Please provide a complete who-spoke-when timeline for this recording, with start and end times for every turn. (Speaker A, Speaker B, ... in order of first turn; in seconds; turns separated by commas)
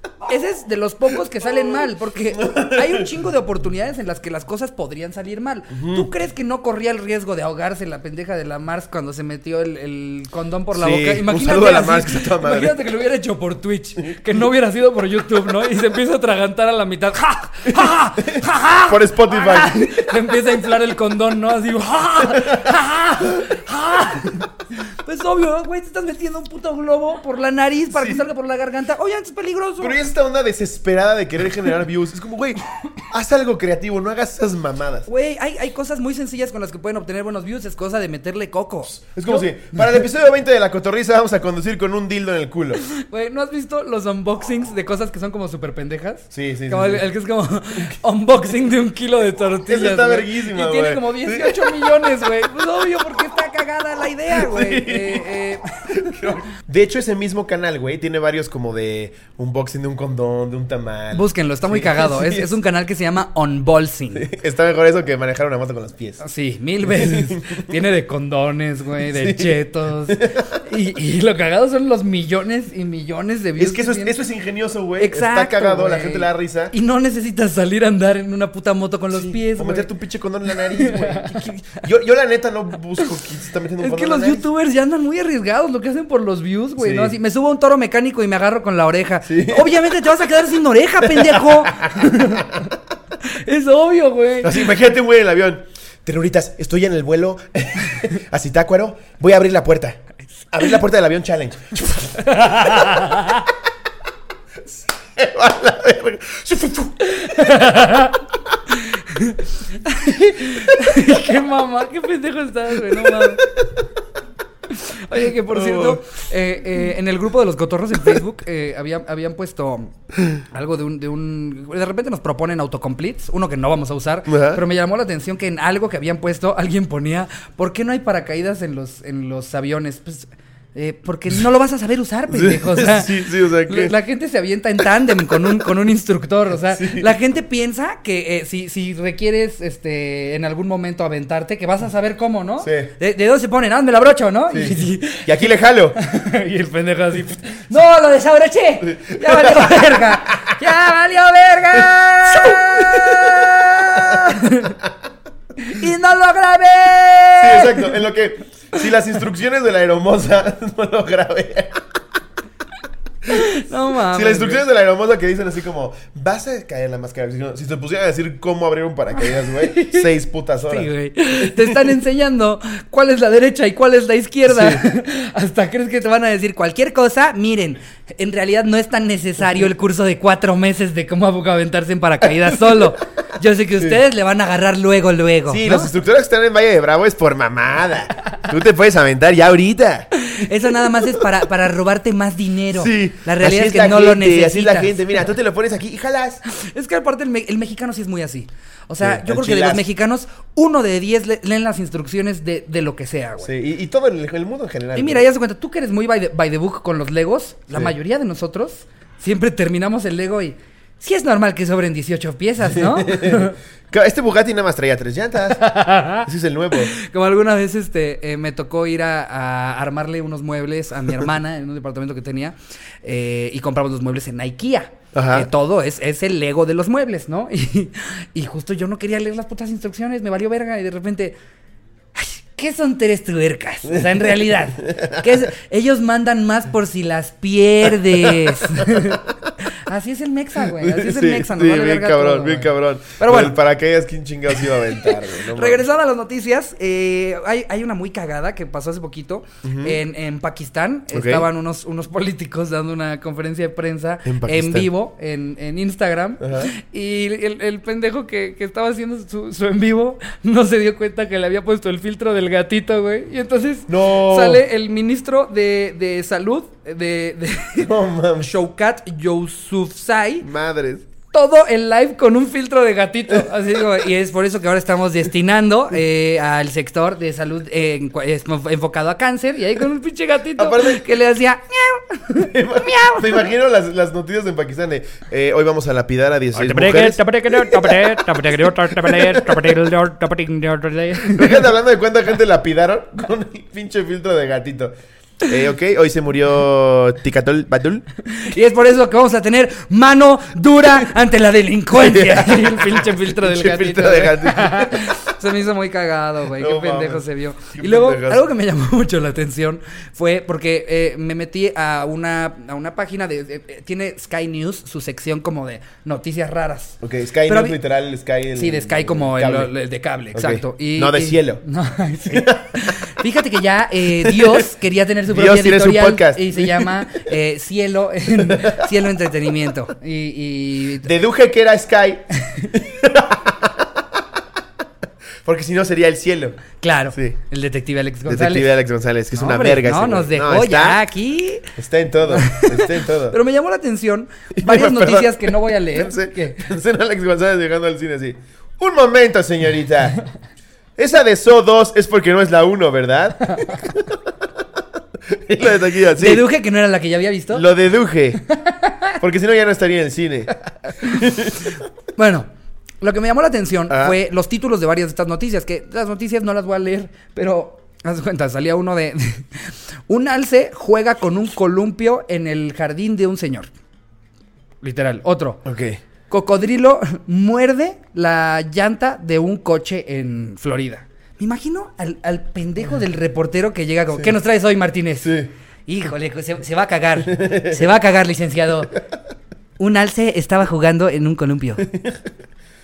Speaker A: 0.2-24.5, Speaker B: 2.3-3.1, Speaker B: 5.7-6.1, Speaker B: 10.7-12.8, Speaker B: 17.8-19.8, Speaker B: 22.3-22.8, Speaker A: 25.0-30.0, Speaker B: 27.9-28.2, Speaker B: 29.8-35.1, Speaker A: 35.1-39.8, Speaker B: 39.0-42.8, Speaker A: 42.8-56.2, Speaker B: 46.3-47.0, Speaker B: 49.7-52.1, Speaker B: 54.3-55.4, Speaker B: 55.9-62.5, Speaker A: 61.1-64.3, Speaker B: 64.1-66.2, Speaker A: 66.2-74.2, Speaker B: 66.8-67.8, Speaker B: 69.0-70.5, Speaker B: 73.6-76.7, Speaker A: 75.0-79.9, Speaker B: 79.1-84.5, Speaker A: 80.6-81.4, Speaker A: 83.8-92.7, Speaker B: 86.8-87.2, Speaker B: 89.2-89.7, Speaker B: 91.0-92.7, Speaker A: 93.2-94.7, Speaker B: 94.4-100.0, Speaker B: 100.5-103.1, Speaker A: 102.2-103.5, Speaker B: 104.7-107.7, Speaker A: 107.0-113.5, Speaker B: 112.9-113.8, Speaker A: 114.7-145.4, Speaker B: 115.2-116.0, Speaker B: 124.3-124.6, Speaker B: 132.3-133.9, Speaker B: 136.7-137.1, Speaker B: 142.6-142.9, Speaker B: 144.5-146.0, Speaker A: 146.0-154.8, Speaker B: 148.8-150.6, Speaker B: 151.8-154.4, Speaker A: 155.6-157.9, Speaker B: 157.4-161.8, Speaker A: 163.3-164.6, Speaker B: 164.1-170.9, Speaker A: 169.2-170.1, Speaker A: 170.7-185.9, Speaker B: 171.4-171.9, Speaker B: 174.5-174.8, Speaker B: 185.5-190.1, Speaker A: 190.2-195.0, Speaker B: 192.7-196.4, Speaker A: 196.5-203.5, Speaker B: 199.0-199.8, Speaker B: 203.4-205.2, Speaker A: 204.9-213.6, Speaker B: 212.6-216.9, Speaker A: 215.4-231.4, Speaker B: 225.1-225.5, Speaker A: 232.2-243.6, Speaker B: 234.9-235.2, Speaker B: 238.0-239.5, Speaker B: 240.6-245.8, Speaker A: 244.6-270.5, Speaker B: 249.6-250.0, Speaker B: 251.1-251.5, Speaker B: 254.2-254.9, Speaker B: 256.4-256.7, Speaker B: 263.9-264.6, Speaker B: 267.8-268.5, Speaker B: 270.4-271.1, Speaker A: 271.3-283.5, Speaker B: 280.6-281.1, Speaker B: 282.4-289.8, Speaker A: 286.5-291.7, Speaker B: 291.3-298.1, Speaker A: 298.3-317.8, Speaker B: 301.9-305.2, Speaker B: 306.5-308.5, Speaker B: 317.0-319.7, Speaker A: 318.6-331.1, Speaker B: 320.3-321.6, Speaker B: 322.3-323.0, Speaker B: 324.2-324.6, Speaker B: 325.3-327.2, Speaker B: 328.4-328.9, Speaker B: 331.0-334.0, Speaker B: 335.4-337.4, Speaker A: 336.8-338.7, Speaker B: 338.3-341.0, Speaker A: 339.3-346.7, Speaker B: 341.8-343.4, Speaker B: 344.6-350.2, Speaker B: 351.0-354.3, Speaker B: 355.3-356.5, Speaker A: 356.1-357.6, Speaker B: 357.5-358.4, Speaker A: 358.5-359.2, Speaker B: 359.2-361.8, Speaker A: 360.8-362.5, Speaker A: 363.0-373.7, Speaker B: 363.9-364.2, Speaker A: 374.8-375.6, Speaker B: 375.6-376.0, Speaker A: 376.3-389.0, Speaker B: 385.2-385.5, Speaker B: 387.3-387.9, Speaker A: 389.8-391.9, Speaker B: 391.9-392.3